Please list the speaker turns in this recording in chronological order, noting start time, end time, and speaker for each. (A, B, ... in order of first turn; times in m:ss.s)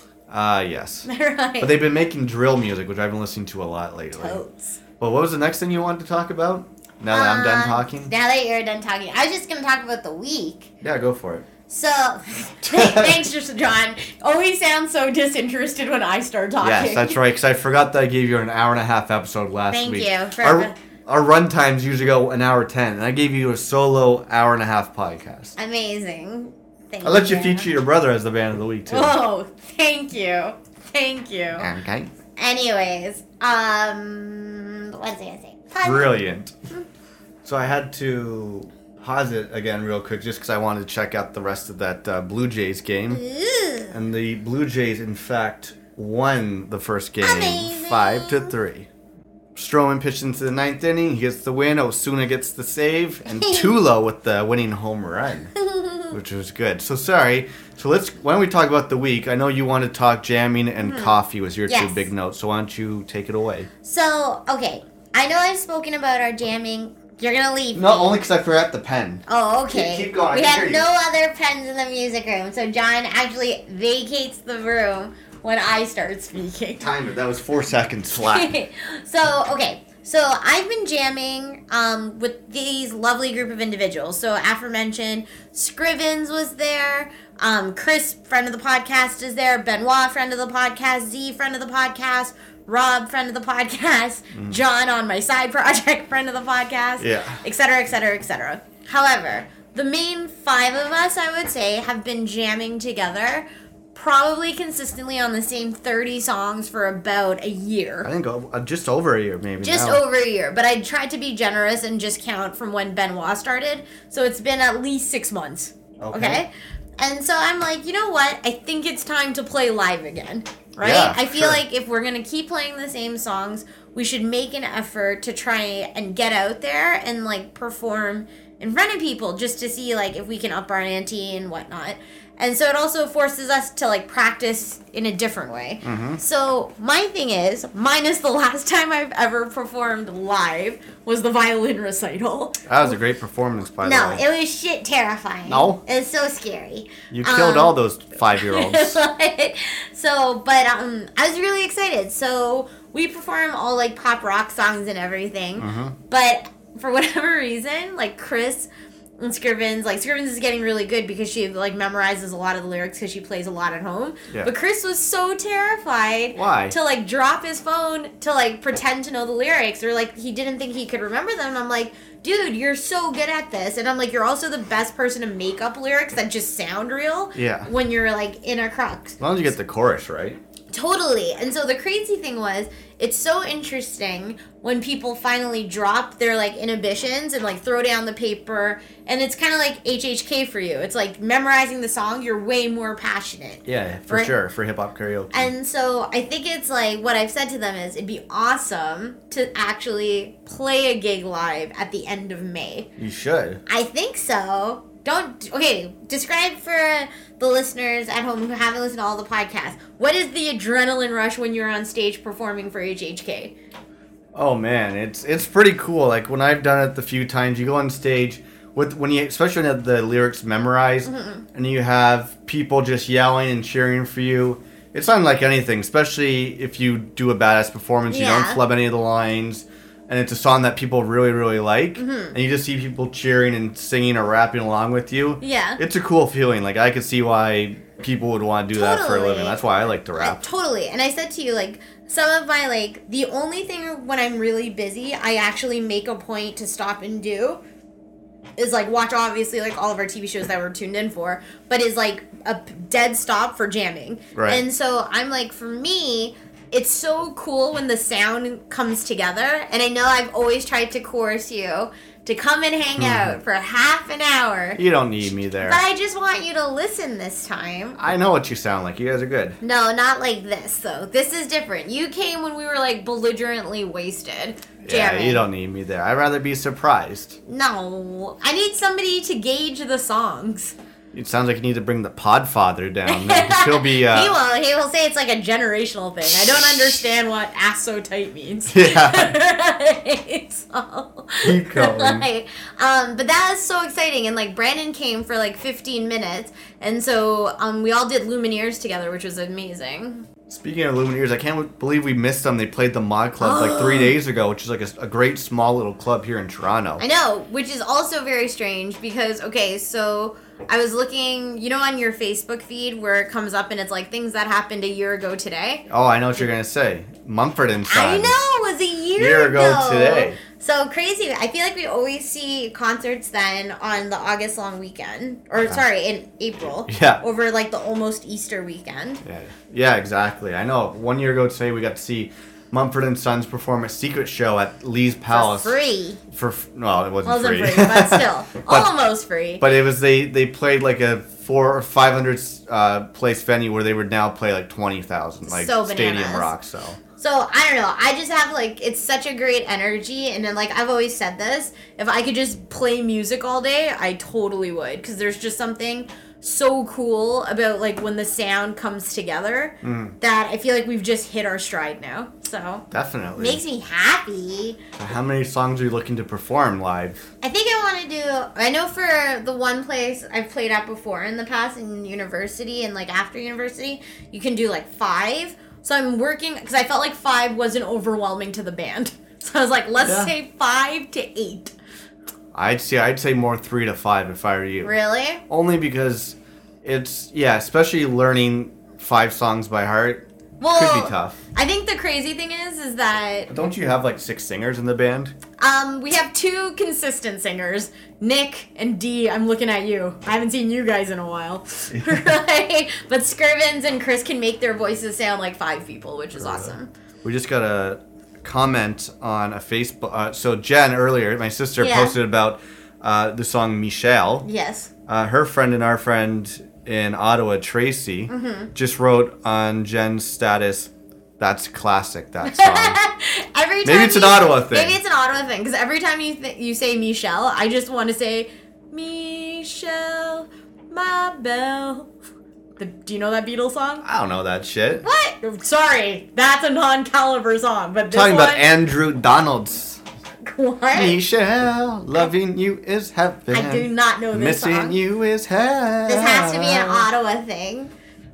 0:00.3-0:01.1 A
0:01.1-0:01.8 B
0:01.6-0:04.4 A
0:04.2-0:04.8 B
0:05.0-0:08.1 A
0:07.1-0:10.7 B
0:10.8-0:11.5 A
0:11.7-0:17.2 B
0:12.6-0:13.2 A
0:16.6-0:25.6 A
0:19.7-0:20.8 B
0:25.6-0:27.7 B
0:27.0-0:29.2 A
0:28.9-0:31.7 B
0:31.6-0:32.1 A
0:32.4-0:36.2 B
0:35.8-0:36.6 A
0:37.4-0:43.2 A
0:43.1-0:44.0 B
0:43.9-0:48.9 A
0:47.2-0:48.5 B
0:49.6-0:55.5 A
0:53.3-0:53.7 B
0:55.6-0:56.2 B
0:56.1-1:03.7 A
1:00.8-1:01.2 B
1:01.7-1:02.1 B
1:03.8-1:08.2 B
1:07.7-1:10.9 A
1:09.3-1:16.9 B
1:16.8-1:18.5 A
1:18.3-1:48.1 B
1:34.3-1:34.6 A
1:37.0-1:37.4 A
1:48.0-1:50.0 A
1:49.6-2:22.9 B
1:56.0-1:56.4 A
2:00.8-2:01.6 A
2:15.8-2:16.2 A
2:22.7-2:24.2 A
2:23.8-2:27.8 B
2:25.5-2:25.8 A
2:27.1-2:29.0 A
2:28.4-2:59.2 B
2:35.6-2:36.0 A
2:46.3-2:46.8 A
2:57.4-2:57.7 A
2:59.2-3:00.4 A
3:00.7-3:14.3 B
3:13.7-3:15.5 A
3:15.3-3:22.9 B
3:23.0-3:23.6 A
3:23.7-3:33.5 B
3:34.3-4:00.4 A
3:41.0-3:41.4 B
3:48.1-3:48.6 B
3:52.0-3:52.4 B
3:55.4-3:55.8 B
3:58.7-3:59.6 B
4:00.2-4:07.6 B
4:08.6-4:24.8 B
4:14.3-4:14.6 A
4:23.0-4:23.4 A
4:24.8-4:25.8 A
4:25.6-4:28.0 B
4:28.0-4:29.6 A
4:29.6-4:35.4 B
4:34.8-4:37.4 A
4:37.5-4:40.7 B
4:41.1-4:44.4 A
4:43.1-5:00.3 B
4:48.7-4:49.4 A
4:51.4-4:52.2 A
5:00.5-5:07.0 A
5:03.4-5:04.2 B
5:07.0-5:16.4 B
5:15.9-5:18.4 A
5:17.9-5:29.2 B
5:19.2-5:20.4 A
5:26.9-5:27.2 A
5:29.2-5:35.8 A
5:35.3-5:36.2 B
5:36.3-5:38.9 A
5:37.2-5:39.7 B
5:39.6-5:47.0 A
5:45.5-5:46.5 B
5:47.2-6:02.8 B
5:59.8-6:00.2 A
6:02.9-6:03.6 A
6:03.4-6:04.8 B
6:05.0-6:07.3 A
6:07.4-6:21.7 B
6:20.0-6:20.3 A
6:22.5-6:25.0 A
6:24.8-6:25.4 B
6:25.5-6:31.4 A
6:30.6-6:33.5 B
6:33.5-6:35.4 A
6:35.6-6:46.9 B
6:41.9-6:42.3 A
6:46.4-6:54.5 A
6:51.8-6:52.2 B
6:54.4-6:54.9 B
6:55.1-7:03.0 A
6:58.3-6:58.7 B
7:02.4-7:12.1 B
7:03.8-7:05.0 A
7:12.8-7:14.0 B
7:14.0-7:15.0 A
7:15.0-7:18.6 B
7:18.1-7:20.0 A
7:20.4-7:21.2 B
7:20.9-7:27.1 A
7:23.5-7:25.0 B
7:26.1-7:27.9 B